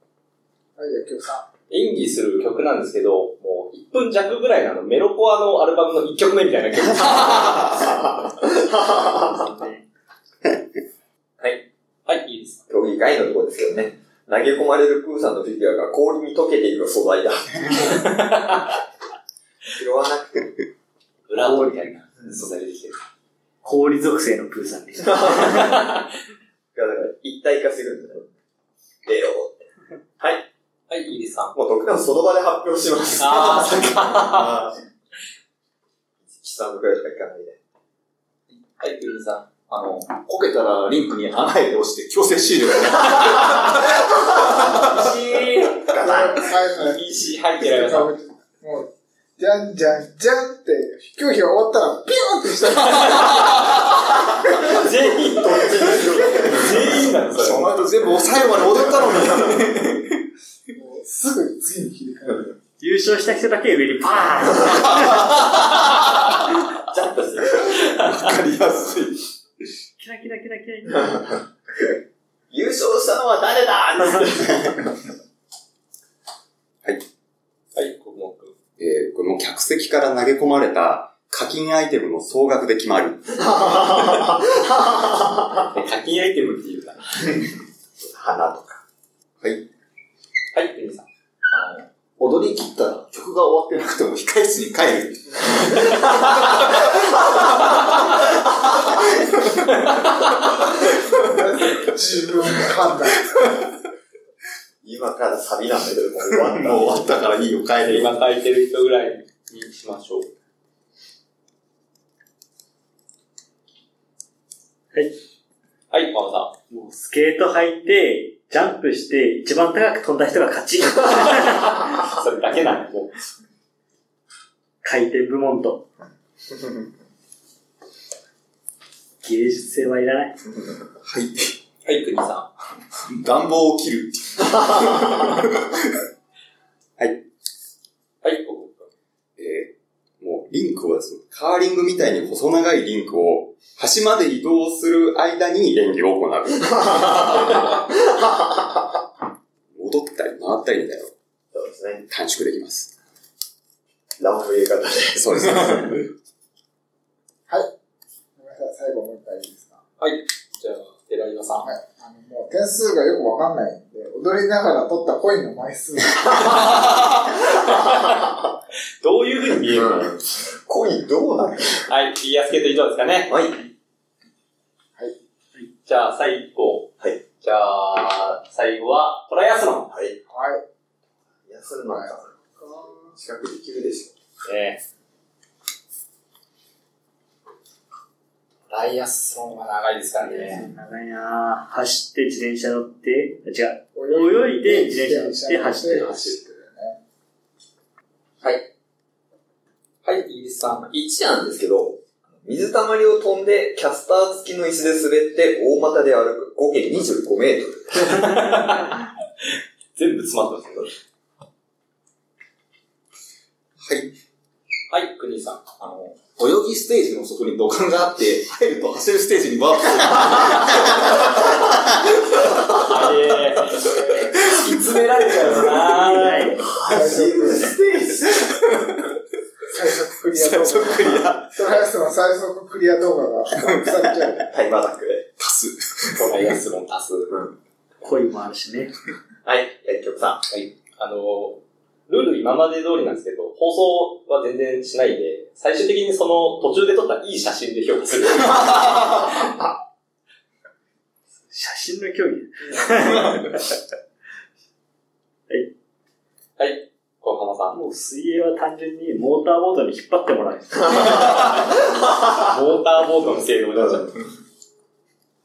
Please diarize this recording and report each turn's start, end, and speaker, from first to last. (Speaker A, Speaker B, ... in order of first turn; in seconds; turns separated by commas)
Speaker A: 0.8-1.5, Speaker B: 1.7-7.9, Speaker C: 8.8-9.8, Speaker B: 12.1-12.6, Speaker D: 12.7-18.0, Speaker B: 17.9-18.8, Speaker D: 19.7-20.6, Speaker B: 21.3-23.0, Speaker C: 21.4-21.8, Speaker C: 23.6-25.8, Speaker B: 25.4-26.0, Speaker D: 26.7-28.3, Speaker D: 29.1-29.6, Speaker B: 30.9-31.5, Speaker D: 31.5-34.6, Speaker B: 33.2-34.7, Speaker D: 36.2-37.6, Speaker B: 38.8-39.5, Speaker E: 39.7-45.0, Speaker B: 44.3-48.1, Speaker D: 45.9-46.5, Speaker A: 46.0-47.0, Speaker A: 47.6-53.7, Speaker B: 54.5-57.6, Speaker D: 54.6-56.7, Speaker E: 57.3-60.2, Speaker A: 60.7-62.5, Speaker C: 62.8-65.4, Speaker D: 66.9-67.9, Speaker E: 67.8-69.3, Speaker C: 70.0-71.4, Speaker D: 72.5-74.7, Speaker C: 74.0-74.3, Speaker F: 74.3-74.8, Speaker B: 77.8-78.5, Speaker F: 78.8-83.5, Speaker D: 83.5-85.4, Speaker B: 85.7-87.3, Speaker D: 88.0-88.8, Speaker B: 90.5-91.0, Speaker E: 91.5-97.7, Speaker B: 99.6-100.7, Speaker A: 101.1-103.4, Speaker D: 104.8-107.0, Speaker E: 106.3-108.1, Speaker B: 107.8-110.3, Speaker B: 115.9-116.5, Speaker C: 116.7-121.8, Speaker B: 121.3-123.1, Speaker C: 124.8-125.8, Speaker C: 129.2-130.4, Speaker E: 131.0-131.5, Speaker B: 131.8-132.5, Speaker E: 133.0-136.0, Speaker B: 138.2-138.9, Speaker F: 139.4-147.6, Speaker F: 149.7-151.1, Speaker D: 151.5-152.1, Speaker F: 152.1-152.9, Speaker D: 154.2-155.2, Speaker F: 155.2-156.1, Speaker A: 158.4-159.8, Speaker B: 160.0-161.7, Speaker A: 161.6-166.5, Speaker B: 167.5-168.3, Speaker B: 169.0-170.1, Speaker D: 169.7-171.9, Speaker B: 171.9-173.3, Speaker D: 173.3-173.6, Speaker B: 175.8-176.9, Speaker B: 177.4-179.9, Speaker D: 179.9-180.2, Speaker A: 180.3-180.6, Speaker D: 181.5-182.3, Speaker A: 181.8-183.1, Speaker D: 183.1-184.1, Speaker B: 184.4-184.8, Speaker B: 188.7-190.6, Speaker C: 190.2-196.4, Speaker A: 193.9-197.0, Speaker B: 200.0-200.9, Speaker D: 200.8-208.2, Speaker B: 208.1-209.1, Speaker B: 209.9-210.9, Speaker E: 213.8-214.1, Speaker B: 214.9-215.6, Speaker E: 215.8-222.8, Speaker B: 222.9-226.6, Speaker C: 225.9-227.0, Speaker D: 226.9-228.3, Speaker A: 226.9-227.6, Speaker E: 228.3-229.0, Speaker A: 229.7-234.4, Speaker E: 230.3-231.5, Speaker E: 233.7-234.1, Speaker D: 234.4-235.2, Speaker E: 235.4-236.5, Speaker B: 236.1-237.3, Speaker D: 237.3-237.5, Speaker C: 238.0-238.9, Speaker D: 239.4-240.4, Speaker B: 240.5-249.5, Speaker C: 251.5-253.5, Speaker B: 256.6-257.8, Speaker C: 257.7-261.5, Speaker B: 262.4-264.2